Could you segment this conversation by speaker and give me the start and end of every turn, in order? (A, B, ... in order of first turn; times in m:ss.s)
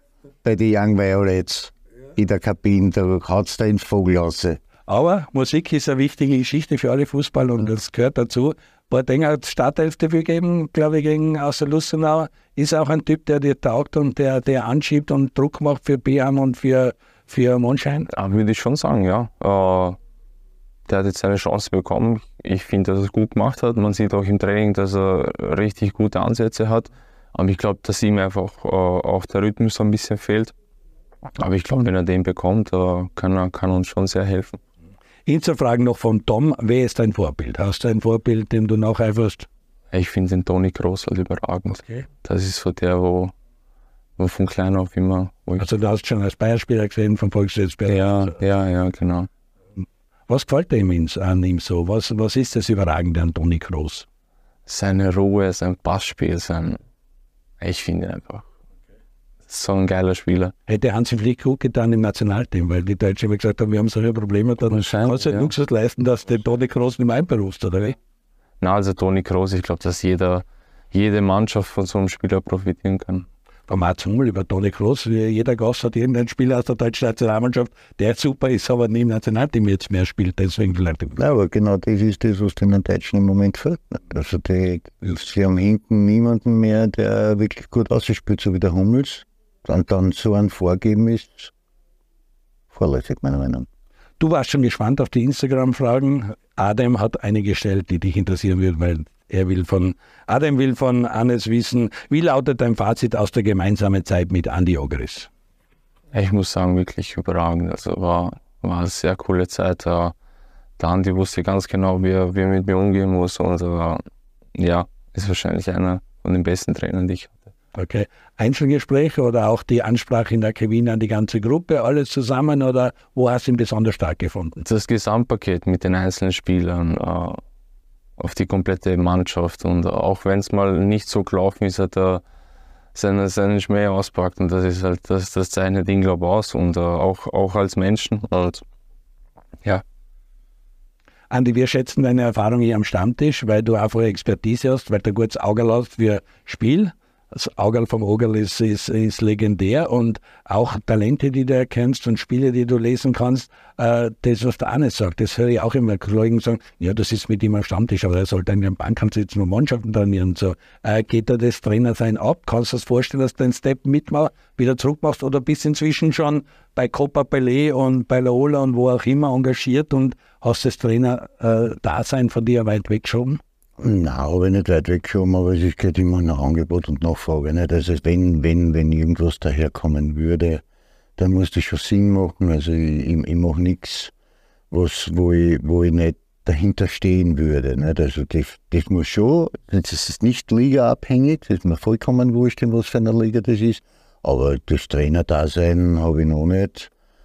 0:00.4-0:04.6 A
0:04.9-0:18.1 B
0:18.1-0:20.0 C
0:20.9-0:30.5 C
0:31.4-0:34.6 C
0:35.3-0:39.5 B
0:39.9-0:43.3 C
0:44.2-0:45.7 C
0:45.6-0:48.4 B
0:47.9-0:49.3 C
0:49.8-0:54.0 B
0:54.7-0:56.8 C
0:57.6-0:58.5 C
0:59.5-1:00.5 C
1:00.7-1:08.0 B
1:04.6-1:05.5 C
1:08.6-1:13.3 C
1:13.7-1:21.2 B
1:21.2-1:31.5 A
1:32.7-1:33.7 A
1:34.2-1:45.3 B
1:46.1-1:50.1 C
1:50.8-1:54.0 C
1:54.5-1:57.3 C
1:57.7-2:04.6 B
2:04.6-2:07.4 C
2:08.2-2:12.2 C
2:12.9-2:18.6 C
2:21.3-2:53.4 B
2:53.8-3:00.6 A
3:01.2-3:04.1 A
3:04.7-3:16.9 A